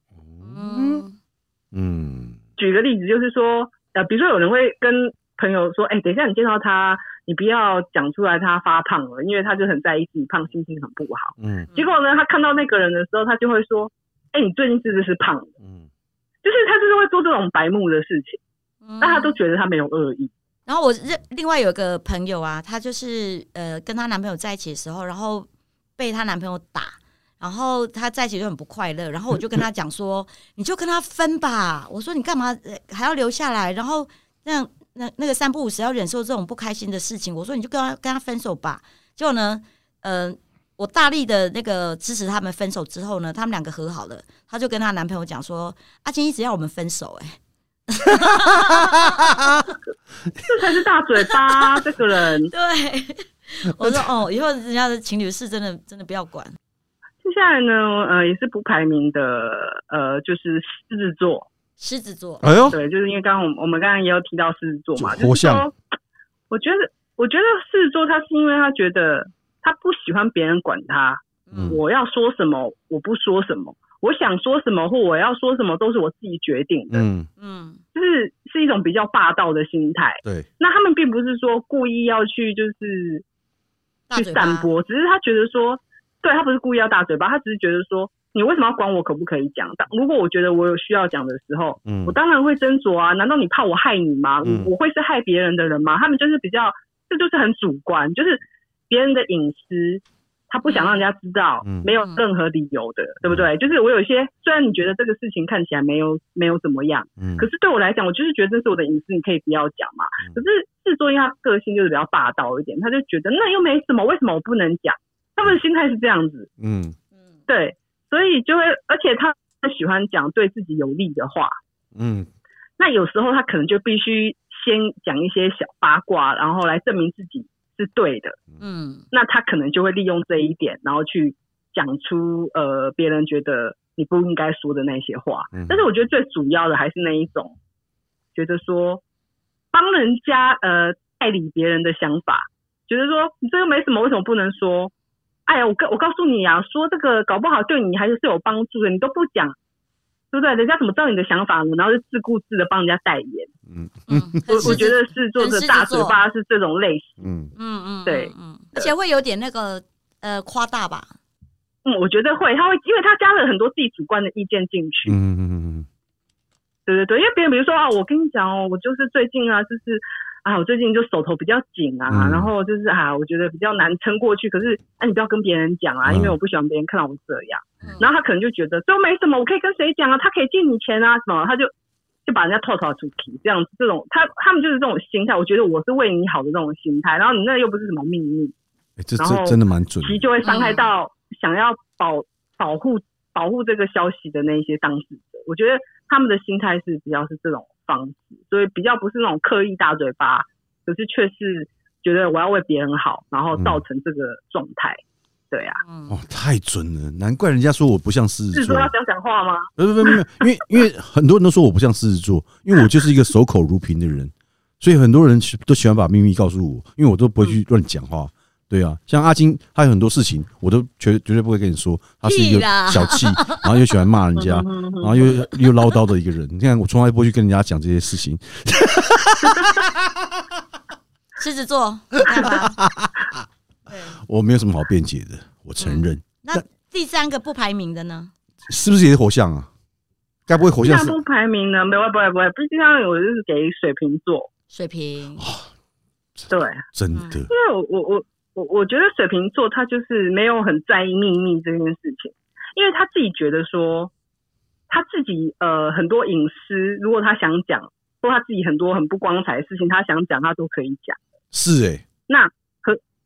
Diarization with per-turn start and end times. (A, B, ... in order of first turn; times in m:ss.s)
0:00.2-0:01.0 A
0:00.4-0:01.2 B
0:01.7-0:02.4 A
0:02.6-0:15.5 C
0:11.4-0:11.7 A
0:15.6-0:15.9 A
0:16.4-0:18.4 C
0:18.8-0:19.4 B
0:19.0-0:20.3 C
0:20.7-0:47.4 B
0:47.9-0:49.8 B
0:48.7-0:49.2 A
0:50.4-0:52.5 C
0:51.3-0:51.7 B
0:52.5-0:56.6 B
0:53.8-0:54.1 A
0:57.2-1:01.5 C
1:01.8-1:02.8 B
1:02.4-1:02.8 A
1:02.7-1:05.7 C
1:05.0-1:05.7 A
1:06.5-1:17.0 C
1:11.5-1:11.8 B
1:11.5-1:11.8 A
1:16.9-1:17.3 A
1:17.4-1:17.8 B
1:18.0-1:23.2 C
1:24.1-1:24.7 B
1:24.1-1:56.5 C
1:31.8-1:32.2 A
1:34.4-1:34.7 A
1:40.6-1:41.0 B
1:41.6-1:41.9 A
1:42.0-1:42.2 B
1:47.2-1:47.5 A
1:56.6-1:57.0 A
1:57.5-2:01.5 C
2:02.0-2:02.3 A
2:02.8-2:08.4 C
2:08.6-2:09.0 B
2:09.1-2:17.6 C
2:15.5-2:15.9 A
2:18.4-2:19.0 C
2:19.7-2:24.9 C
2:25.5-2:29.6 C
2:30.3-2:33.5 C
2:33.7-2:34.9 A
2:34.1-2:36.2 B
2:34.5-2:37.2 C
2:37.2-2:37.5 A
2:37.6-2:41.1 B
2:38.1-2:38.9 C
2:41.8-2:45.2 C
2:45.1-2:45.9 A
2:46.9-3:01.7 C
2:52.1-2:52.5 A
2:56.0-2:56.4 A
3:02.3-3:08.5 C
3:09.0-3:10.3 A
3:09.2-3:25.0 C
3:10.4-3:10.8 B
3:23.5-3:23.8 A
3:25.5-3:25.8 C
3:25.8-3:26.2 B
3:26.1-3:28.9 A
3:28.5-3:30.2 C
3:29.8-3:50.1 A
3:42.2-3:43.8 B
3:44.4-3:45.5 C
3:51.4-3:52.8 B
3:52.2-3:53.4 A
3:53.9-3:54.2 B
3:54.2-3:56.6 A
3:55.8-3:58.3 B
3:58.6-3:59.7 A
4:00.5-4:01.2 A
4:00.8-4:04.5 C
4:04.7-4:05.5 B
4:05.4-4:05.7 A
4:06.4-4:07.5 A
4:06.5-4:06.8 C
4:07.1-4:07.4 B
4:07.5-4:14.1 C
4:14.9-4:21.2 C
4:21.5-4:22.0 A
4:22.3-4:23.0 C